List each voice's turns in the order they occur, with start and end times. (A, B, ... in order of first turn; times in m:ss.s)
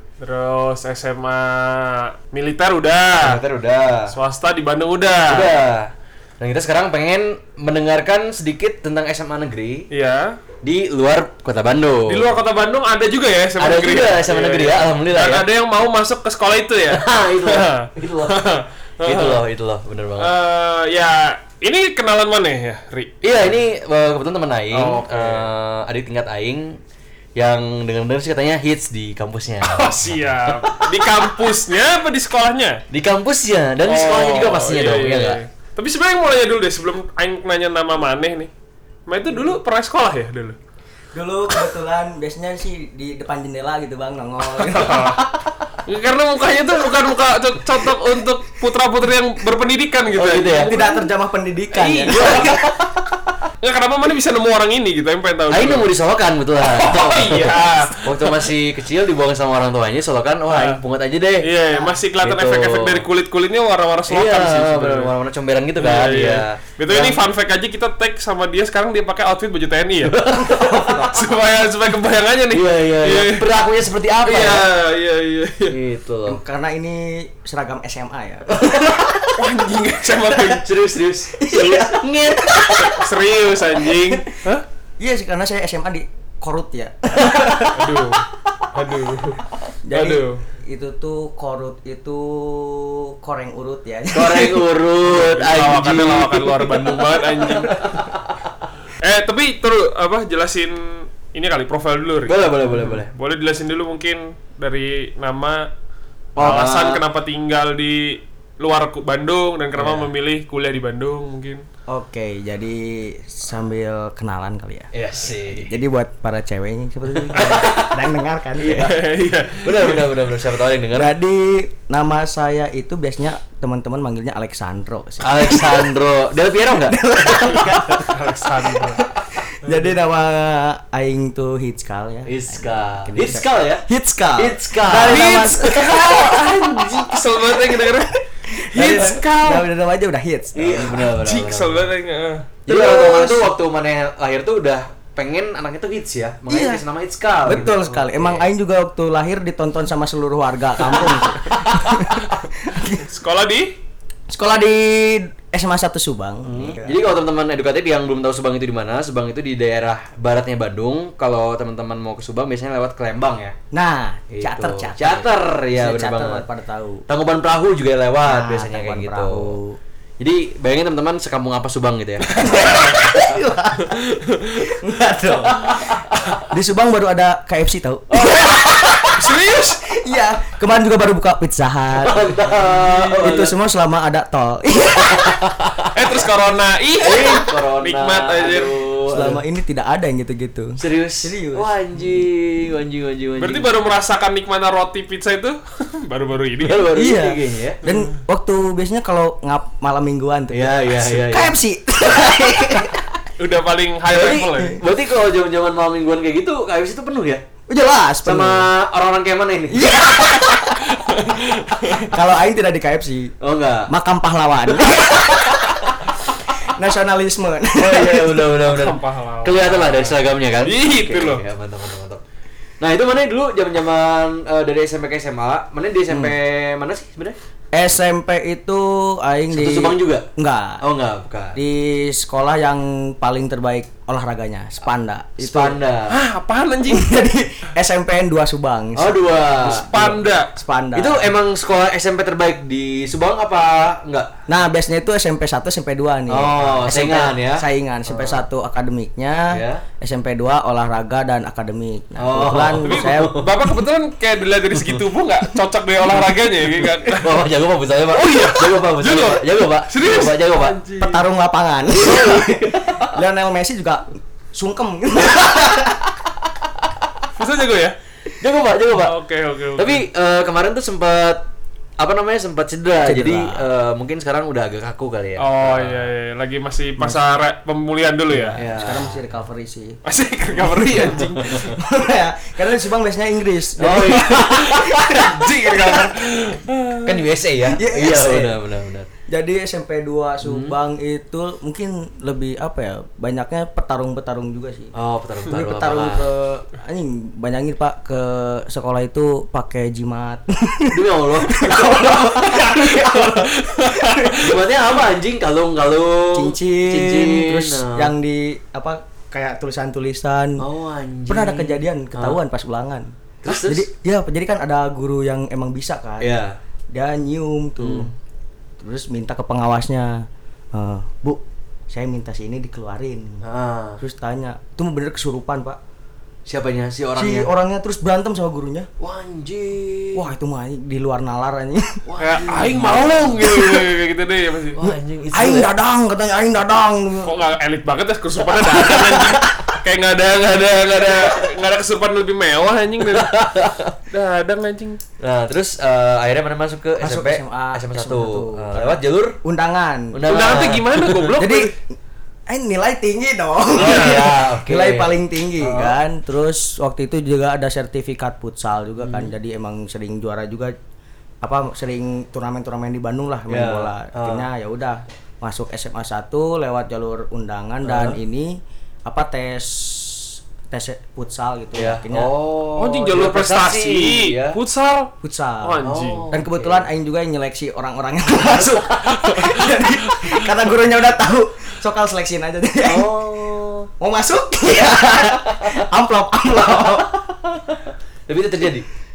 0:00.2-0:03.4 A
0:03.2-0:04.2 B
0:04.1-0:05.5 A
0:05.3-0:09.9 B
0:09.9-0:10.4 A
0:10.6-0:12.4 B
0:12.1-0:19.4 A
0:13.6-0:15.5 B
0:16.9-0:18.4 B
0:19.0-0:20.3 B
0:20.2-0:23.6 A
0:23.2-0:26.8 B
0:24.7-0:25.5 A
0:27.4-0:31.5 B
0:29.6-0:32.8 A
0:32.9-0:35.4 B
0:33.8-0:38.5 A
0:39.1-0:40.6 A
0:41.1-0:45.2 C
0:44.6-0:45.2 A
0:45.9-0:51.1 A
0:50.1-0:50.7 B
0:50.7-0:52.5 C
0:51.7-0:52.6 A
0:52.1-0:53.2 B
0:53.6-0:55.9 A
0:55.5-1:01.5 B
0:56.7-0:58.5 A
1:00.5-1:00.8 A
1:01.4-1:05.1 A
1:02.2-1:03.0 B
1:04.1-1:07.2 B
1:05.8-1:10.2 A
1:10.0-1:11.2 B
1:10.5-1:11.0 C
1:10.7-1:13.5 A
1:12.5-1:14.7 B
1:14.2-1:15.8 A
1:15.7-1:16.4 B
1:16.3-1:19.3 C
1:18.5-1:19.3 B
1:19.4-1:20.7 A
1:20.5-1:21.4 B
1:21.3-1:23.0 C
1:21.5-1:21.9 A
1:21.9-1:22.9 B
1:22.8-1:24.6 A
1:25.0-1:27.8 C
1:27.3-1:27.7 B
1:27.7-1:30.4 A
1:29.8-1:34.7 C
1:34.1-1:38.7 B
1:35.1-1:37.9 A
1:39.0-1:45.7 A
1:42.2-1:43.1 B
1:46.4-1:47.0 B
1:46.4-1:51.6 A
1:49.8-1:50.1 B
1:51.9-1:59.0 C
1:54.9-1:55.8 B
1:57.1-2:01.1 B
1:57.4-1:57.7 A
1:58.7-2:00.2 A
2:00.9-2:06.0 C
2:05.2-2:08.0 B
2:06.7-2:08.1 C
2:08.0-2:09.0 A
2:08.9-2:16.1 C
2:12.3-2:13.8 B
2:14.4-2:17.1 B
2:15.1-2:18.2 A
2:18.5-2:21.1 C
2:18.7-2:19.7 A
2:18.8-2:19.2 B
2:20.6-2:21.9 B
2:21.2-2:22.5 A
2:22.7-2:23.5 C
2:22.7-2:28.5 B
2:26.5-2:26.8 C
2:27.4-2:33.0 C
2:30.8-2:31.9 B
2:33.0-2:33.7 A
2:34.3-2:37.0 C
2:36.4-2:43.6 B
2:43.7-2:47.0 C
2:44.3-2:46.4 B
2:47.1-2:49.6 B
2:48.2-2:49.8 C
2:50.2-2:53.3 B
2:52.4-2:54.0 C
2:52.4-2:53.0 A
2:54.2-2:54.6 A
2:54.6-2:59.2 C
2:55.3-2:56.4 B
2:58.1-2:58.6 B
2:59.1-2:59.8 A
2:59.9-3:02.4 C
3:02.0-3:03.5 B
3:02.7-3:03.5 A
3:03.2-3:05.4 C
3:05.0-3:05.9 B
3:05.9-3:08.8 A
3:07.0-3:09.4 B
3:09.1-3:11.8 C
3:10.8-3:13.7 B
3:13.4-3:16.9 A
3:16.6-3:17.8 B
3:17.0-3:23.0 C
3:20.5-3:21.6 B
3:22.1-3:22.9 B
3:23.4-3:24.8 A
3:24.1-3:27.4 B
3:27.7-3:28.7 C
3:28.2-3:30.6 B
3:29.7-3:30.9 C
3:30.9-3:32.1 A
3:32.0-3:33.3 C
3:33.4-3:33.9 B
3:33.9-3:35.6 C
3:34.7-3:36.5 B
3:36.5-3:38.5 C
3:37.8-3:42.2 B
3:38.6-3:41.4 A
3:42.8-3:47.4 B
3:47.7-3:50.8 C
3:49.5-3:50.3 B
3:50.8-3:51.6 B
3:51.6-3:55.8 C
3:55.4-3:56.2 B
3:56.1-3:57.2 A
3:56.9-4:01.3 C
3:59.0-3:59.9 B
3:59.8-4:00.5 A
4:01.0-4:04.3 B
4:04.5-4:13.5 C
4:06.3-4:08.4 B
4:09.5-4:09.8 B
4:12.2-4:13.6 B
4:12.8-4:17.5 A
4:14.7-4:15.0 B
4:16.8-4:20.8 B
4:18.1-4:21.2 A
4:21.0-4:26.1 C
4:21.9-4:23.2 B
4:27.4-4:28.0 A
4:28.4-4:29.2 B
4:28.9-4:30.0 A
4:29.8-4:31.4 B
4:32.0-4:36.1 B
4:33.0-4:33.6 C
4:35.4-4:38.6 A
4:37.0-4:37.3 C
4:38.3-4:40.0 C
4:38.6-4:39.2 B
4:40.0-4:41.7 A
4:40.5-4:46.0 C
4:40.8-4:41.8 B
4:43.8-4:45.2 B
4:44.3-4:47.2 A
4:47.0-4:49.1 B
4:47.7-4:48.6 C
4:49.3-4:54.9 C
4:50.4-4:50.8 B
4:55.0-4:56.3 B
4:55.5-5:04.3 C
5:00.9-5:02.9 B
5:02.4-5:04.6 A
5:04.3-5:08.1 B
5:06.3-5:10.6 C
5:10.6-5:12.4 B
5:11.3-5:16.4 C
5:13.4-5:13.9 B
5:16.2-5:16.6 B
5:16.9-5:18.1 C
5:17.8-5:18.1 B
5:18.8-5:23.4 C
5:23.4-5:24.0 B
5:24.0-5:25.8 C
5:26.5-5:27.5 B
5:27.2-5:28.9 C
5:29.0-5:30.3 B
5:30.1-5:32.0 C
5:32.1-5:33.8 B
5:32.2-5:34.8 A
5:34.7-5:35.7 B
5:34.8-5:37.4 C
5:37.2-5:43.4 A
5:38.6-5:39.4 C
5:41.1-5:41.4 B
5:43.1-5:44.0 B
5:44.1-5:45.0 A
5:45.2-5:49.4 B
5:47.0-5:50.6 C
5:50.1-5:51.4 B
5:50.3-5:51.7 A
5:51.4-5:51.7 C
5:52.5-6:00.8 C
5:53.8-5:56.0 B
5:59.0-5:59.3 B
6:01.4-6:12.3 C
6:03.5-6:04.5 B
6:07.8-6:08.2 B
6:11.8-6:14.6 B
6:12.8-6:15.1 A
6:15.2-6:23.2 C
6:15.6-6:16.2 A
6:15.8-6:16.9 B
6:18.5-6:19.1 B
6:22.9-6:23.9 B
6:24.0-6:27.2 C
6:25.2-6:25.8 B
6:26.5-6:28.9 B